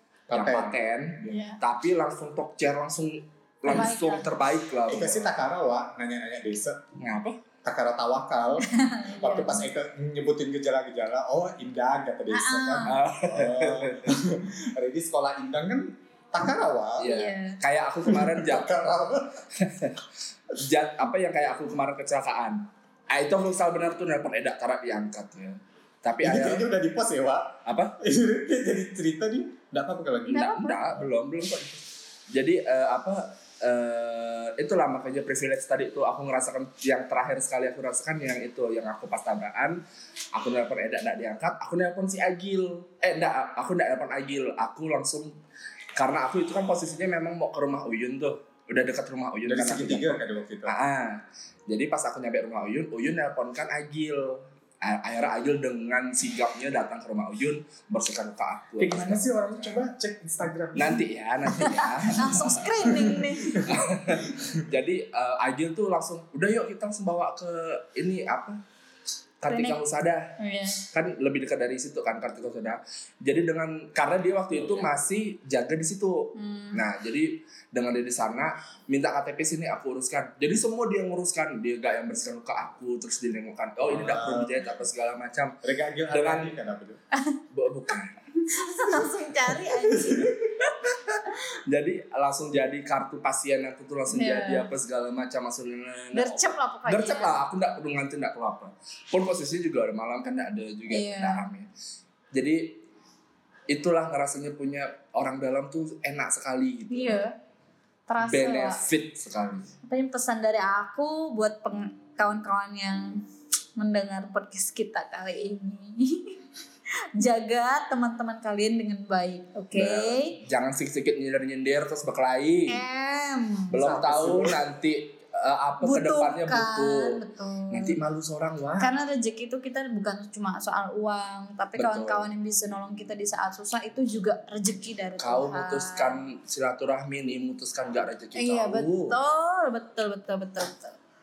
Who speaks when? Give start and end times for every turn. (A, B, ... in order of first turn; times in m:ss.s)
0:00.3-0:00.8 A
0:00.3-0:05.3 B
0:01.3-0:01.6 C
0:03.6-0:04.3 C
0:04.9-0:06.8 A
0:07.0-0:07.4 B
0:07.6-0:08.7 A
0:08.6-0:09.6 C
0:09.2-0:17.1 A
0:12.3-0:13.0 C
0:12.9-0:14.2 B
0:17.0-0:18.7 B
0:17.0-0:17.6 C
0:18.1-0:19.4 A
0:19.5-0:26.7 B
0:26.2-0:30.5 A
0:27.6-0:28.0 B
0:30.3-0:30.8 C
0:30.3-0:39.8 B
0:40.3-0:45.3 B
0:45.9-0:59.8 B
0:49.4-0:50.8 A
0:58.8-1:01.1 A
1:00.7-1:03.1 B
1:01.5-1:03.7 C
1:02.4-1:04.6 A
1:03.6-1:08.6 B
1:09.4-1:10.4 B
1:09.5-1:09.8 C
1:10.4-1:10.9 C
1:10.9-1:25.6 B
1:16.3-1:16.8 C
1:23.8-1:24.6 A
1:25.6-1:27.0 A
1:26.1-1:26.5 B
1:27.5-1:28.2 B
1:28.4-1:30.3 C
1:29.9-1:30.5 A
1:31.2-1:41.7 B
1:34.1-1:34.7 C
1:36.1-1:37.4 C
1:40.9-1:41.4 C
1:42.3-1:42.8 B
1:43.7-1:47.2 B
1:46.9-1:47.3 C
1:48.1-1:48.8 C
1:48.2-1:49.7 B
1:49.8-1:53.2 C
1:53.8-1:56.4 C
1:57.2-2:00.4 C
1:59.7-2:02.8 B
2:02.7-2:03.8 C
2:03.7-2:08.9 B
2:03.8-2:04.6 A
2:05.8-2:08.0 C
2:08.8-2:16.2 C
2:11.7-2:12.3 B
2:15.2-2:19.2 B
2:18.3-2:21.0 C